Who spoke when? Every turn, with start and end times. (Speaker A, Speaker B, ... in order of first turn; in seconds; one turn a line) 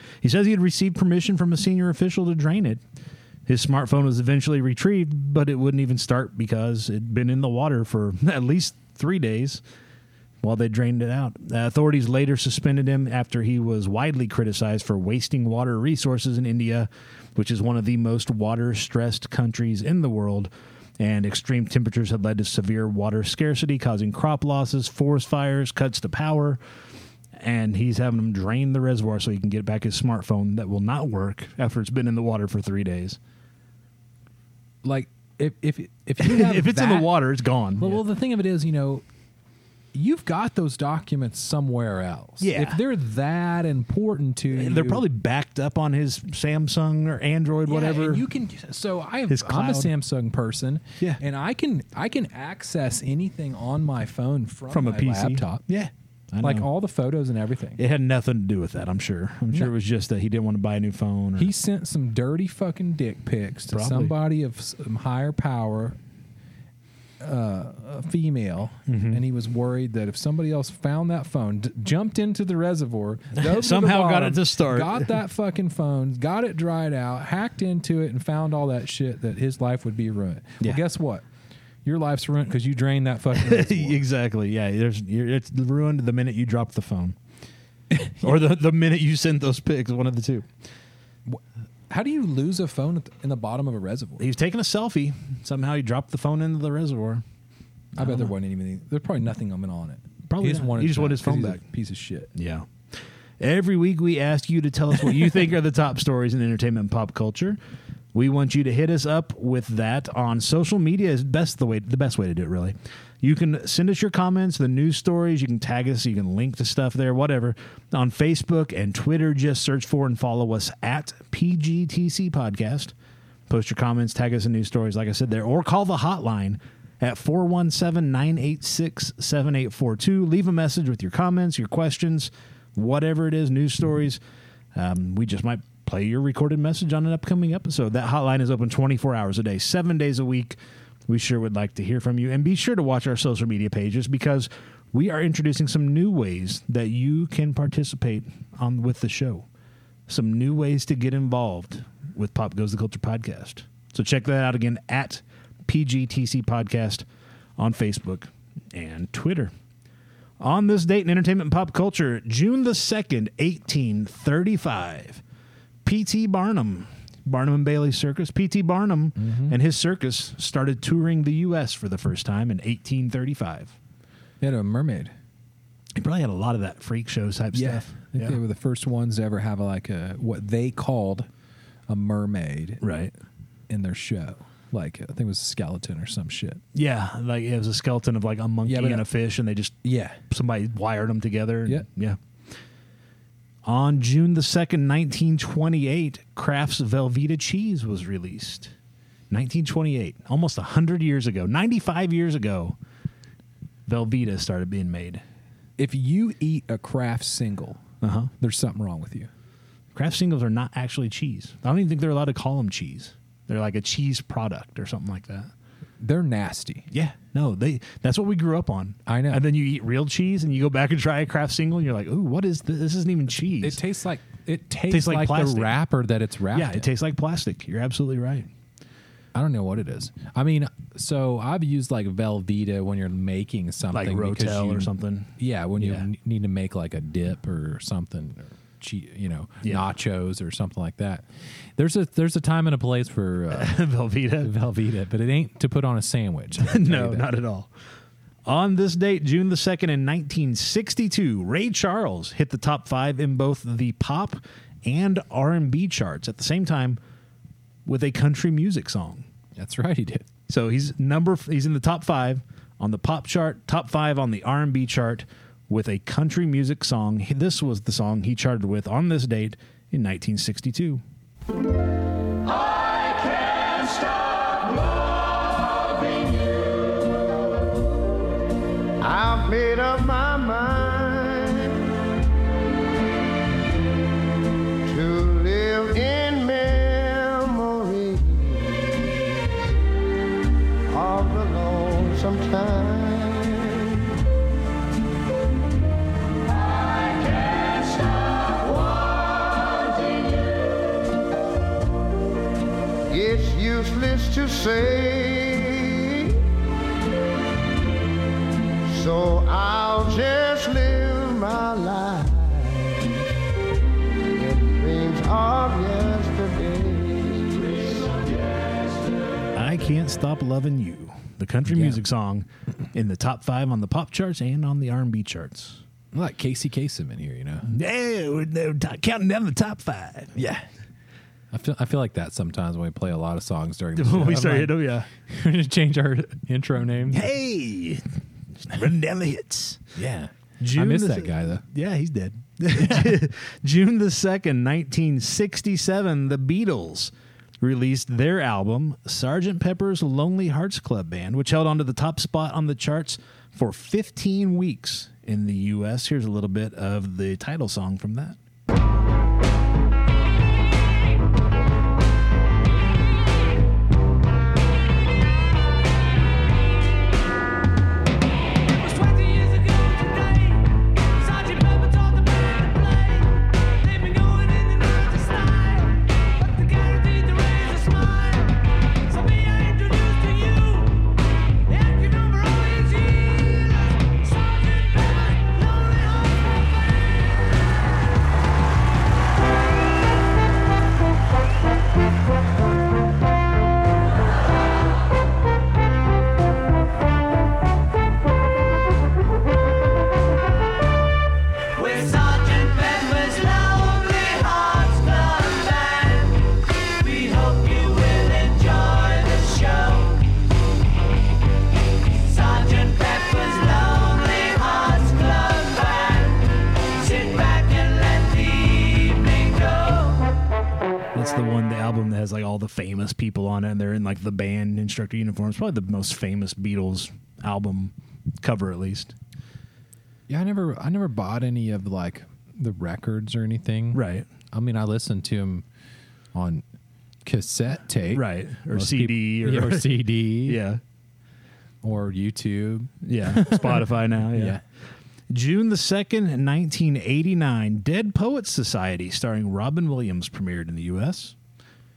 Speaker A: 0.2-2.8
Speaker A: 3.5-9.6
Speaker A: 10.4-26.6
Speaker A: 27.4-33.2
Speaker B: 34.8-37.1
Speaker A: 36.2-38.0
Speaker B: 37.8-39.0
Speaker B: 39.9-45.0
Speaker A: 42.4-42.8
Speaker A: 44.5-48.2
Speaker B: 47.6-55.6
Speaker A: 49.3-49.9
Speaker A: 54.7-56.7
Speaker B: 56.4-57.8
Speaker A: 57.8-61.5
Speaker B: 61.4-66.0
Speaker A: 63.7-64.1
Speaker B: 67.2-81.2
Speaker A: 68.9-69.2
Speaker A: 73.3-75.1
Speaker B: 81.8-84.0
Speaker A: 83.3-87.2
Speaker A: 88.2-90.5
Speaker B: 91.2-94.3
Speaker A: 94.2-97.2
Speaker A: 98.0-98.3
Speaker B: 98.0-102.3
Speaker A: 100.3-101.6
Speaker A: 102.3-102.7
Speaker A: 103.4-107.6
Speaker A: 108.1-122.9
Speaker A: 123.5-134.2
Speaker A: 134.7-149.4
Speaker A: 150.1-157.0
Speaker A: 157.6-159.5
Speaker A: 160.4-165.2
Speaker A: 165.8-173.7
Speaker B: 169.2-169.6
Speaker B: 174.4-175.1
Speaker A: 175.9-178.4
Speaker B: 177.5-181.3
Speaker B: 181.9-182.8
Speaker A: 182.8-183.1
Speaker B: 183.7-186.6
Speaker A: 186.7-189.8
Speaker B: 188.6-189.1
Speaker B: 189.8-190.2
Speaker A: 190.3-192.2
Speaker A: 193.6-198.7
Speaker A: 199.3-202.8
Speaker A: 203.9-205.2
Speaker B: 205.8-207.8
Speaker A: 208.0-208.3
Speaker B: 208.4-209.3
Speaker A: 209.9-215.5
Speaker B: 216.0-216.9
Speaker A: 216.9-223.8
Speaker B: 219.1-219.4
Speaker B: 223.6-226.9
Speaker A: 224.9-225.7
Speaker A: 226.5-228.5
Speaker B: 229.3-243.9
Speaker A: 233.9-236.1
Speaker A: 243.5-244.5
Speaker B: 244.4-247.3
Speaker A: 246.6-247.7
Speaker A: 248.4-257.0
Speaker A: 257.9-259.2
Speaker B: 259.6-260.2
Speaker A: 260.5-271.0
Speaker C: 279.0-281.9
Speaker C: 284.8-289.7
Speaker C: 290.9-294.1
Speaker C: 297.0-300.4
Speaker C: 303.1-306.4
Speaker C: 308.9-313.2
Speaker C: 314.4-318.4
Speaker A: 319.5-325.8
Speaker B: 321.7-322.0
Speaker B: 326.1-327.7
Speaker A: 327.6-330.3
Speaker B: 330.3-330.6
Speaker B: 331.5-337.3
Speaker A: 333.9-335.1
Speaker A: 337.1-338.0
Speaker A: 338.6-339.9
Speaker B: 339.9-341.6
Speaker A: 340.6-358.4
Speaker B: 342.7-343.2
Speaker D: 369.3-370.4
Speaker D: 371.3-373.1
Speaker D: 374.0-375.9
Speaker D: 376.5-378.4
Speaker D: 379.2-380.9
Speaker D: 381.8-383.4
Speaker D: 385.4-386.2
Speaker D: 401.8-406.3
Speaker D: 407.0-410.2
Speaker D: 412.2-420.2
Speaker A: 421.1-429.1
Speaker B: 430.3-435.6
Speaker A: 433.9-434.2
Speaker B: 436.3-436.6
Speaker B: 437.2-440.6
Speaker A: 438.1-440.8
Speaker B: 441.8-444.6
Speaker A: 443.0-444.6
Speaker A: 445.3-451.3